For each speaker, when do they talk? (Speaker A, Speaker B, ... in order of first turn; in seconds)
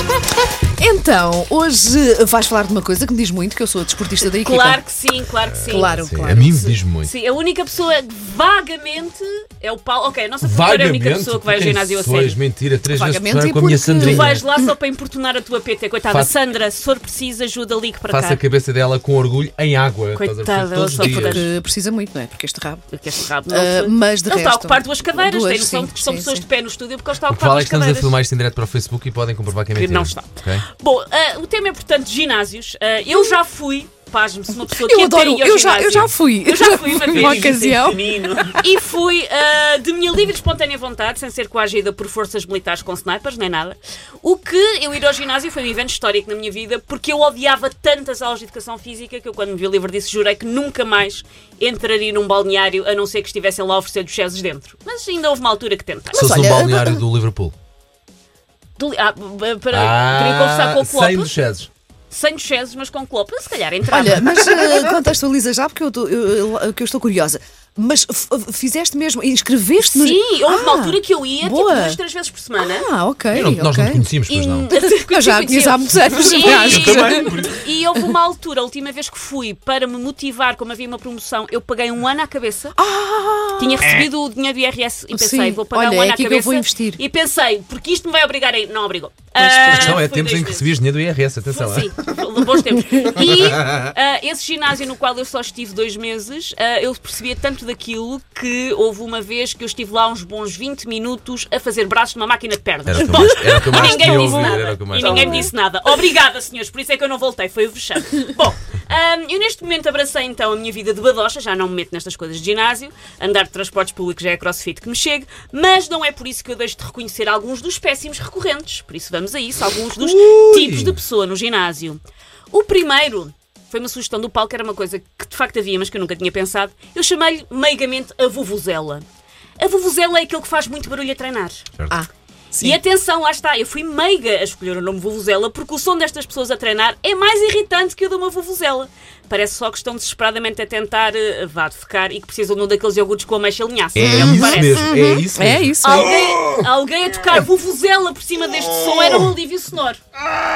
Speaker A: 0.8-4.8, 5.7-6.6, 12.9-14.7, 21.0-22.9, 23.5-26.4, 34.6-38.7, 56.1-57.0, 63.9-72.0, 72.6-74.0, 74.7-78.0, 82.8-84.0, 85.1-87.0, 89.4-90.0, 103.1-105.5, 131.9-132.8, 144.0-146.2
Speaker B: 4.4-12.4, 14.0-18.4, 20.1-21.5, 22.9-28.1, 29.7-56.4, 58.8-61.3, 62.1-64.5, 69.9-72.9, 74.3-82.8, 83.6-90.7, 91.5-129.1, 129.6-131.6, 132.6-144.9, 145.8-150.0
Speaker C: 5.5-7.1, 10.4-14.4, 16.1-16.3, 18.1-21.5, 27.3-30.6, 37.1-37.5, 56.1-57.5, 59.7-61.7, 73.3-74.7, 76.2-77.6, 89.7-91.9, 93.6-93.9, 102.9-105.5, 119.9-121.0, 143.9-146.0